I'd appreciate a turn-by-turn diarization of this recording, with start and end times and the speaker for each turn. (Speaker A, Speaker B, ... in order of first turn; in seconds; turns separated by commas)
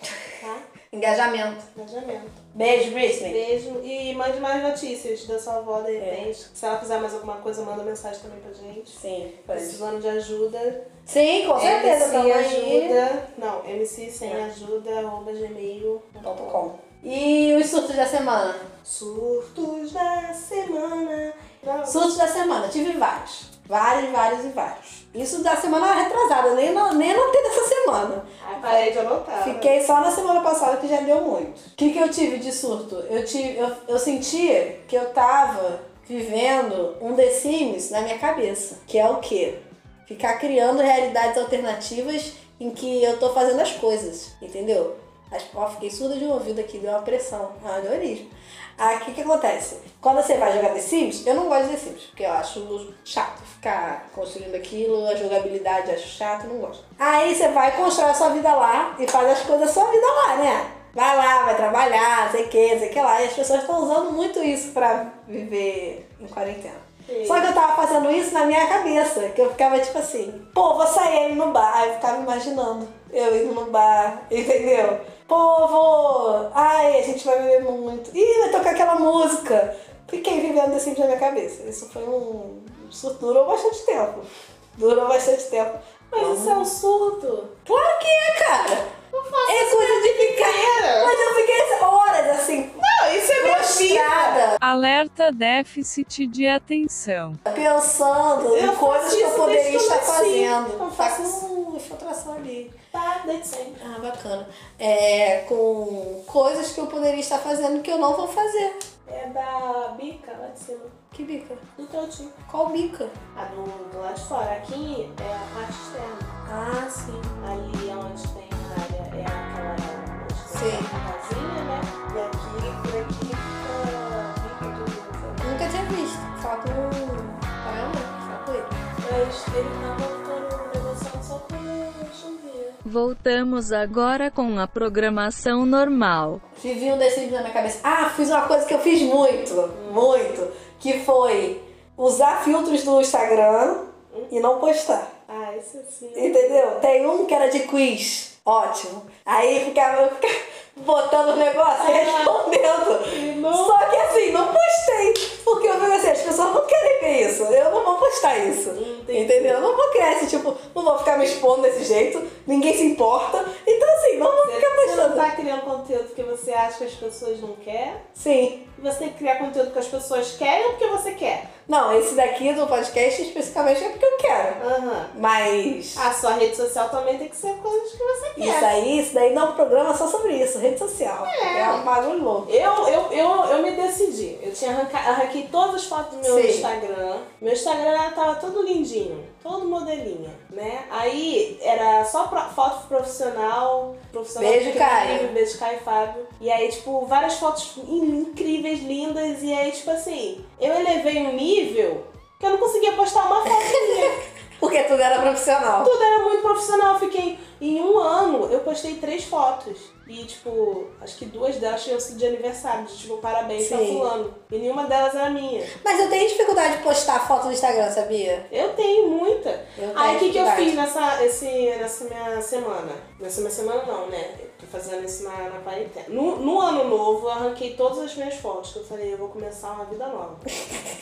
Speaker A: 0.4-0.7, Speaker B: 0.9-1.7, Speaker A: 1.7-2.4, Speaker B: 2.5-3.4, Speaker A: 3.3-9.0, Speaker B: 6.0-6.3, Speaker B: 8.9-9.8, Speaker A: 9.5-10.9, Speaker B: 11.1-13.0, Speaker A: 11.6-16.6, Speaker B: 16.2-18.7, Speaker A: 18.8-22.1, Speaker B: 21.9-86.7, Speaker A: 28.4-29.8, Speaker A: 67.1-67.5, Speaker A: 86.1-87.5, Speaker B: 87.7-88.9, Speaker A: 89.1-91.2, Speaker B: 89.5-92.8, Speaker A: 92.8-94.5, Speaker B: 93.4-94.6, Speaker C: 94.6-97.4, Speaker B: 97.5-102.8, Speaker A: 98.5-101.4, Speaker A: 102.9-103.8, Speaker B: 103.8-108.8, Speaker A: 109.1-111.0, Speaker B: 111.1-111.6, Speaker A: 111.8-112.4, Speaker B: 112.5-113.2, Speaker A: 113.3-116.3, Speaker B: 116.5-117.4, Speaker A: 117.4-125.6, Speaker B: 120.5-120.9, Speaker B: 125.4-128.7, Speaker A: 129.0-132.8, Speaker D: 132.8-136.4, Speaker B: 136.6-145.1, Speaker A: 139.7-140.1, Speaker A: 145.3-146.7, Speaker B: 146.2-165.3, Speaker A: 151.8-153.8, Speaker A: 158.7-159.7, Speaker A: 164.2-168.1, Speaker B: 168.2-168.7, Speaker A: 168.8-171.5, Speaker B: 171.7-176.1, Speaker A: 174.6-175.1, Speaker A: 175.9-178.8, Speaker B: 178.4-182.5, Speaker A: 181.2-181.8, Speaker A: 182.5-204.2, Speaker B: 186.2-186.7, Speaker B: 194.4-195.3, Speaker B: 203.6-205.9, Speaker A: 205.8-215.7, Speaker B: 213.6-214.1, Speaker B: 215.8-218.5, Speaker A: 218.5-230.4, Speaker B: 219.8-220.8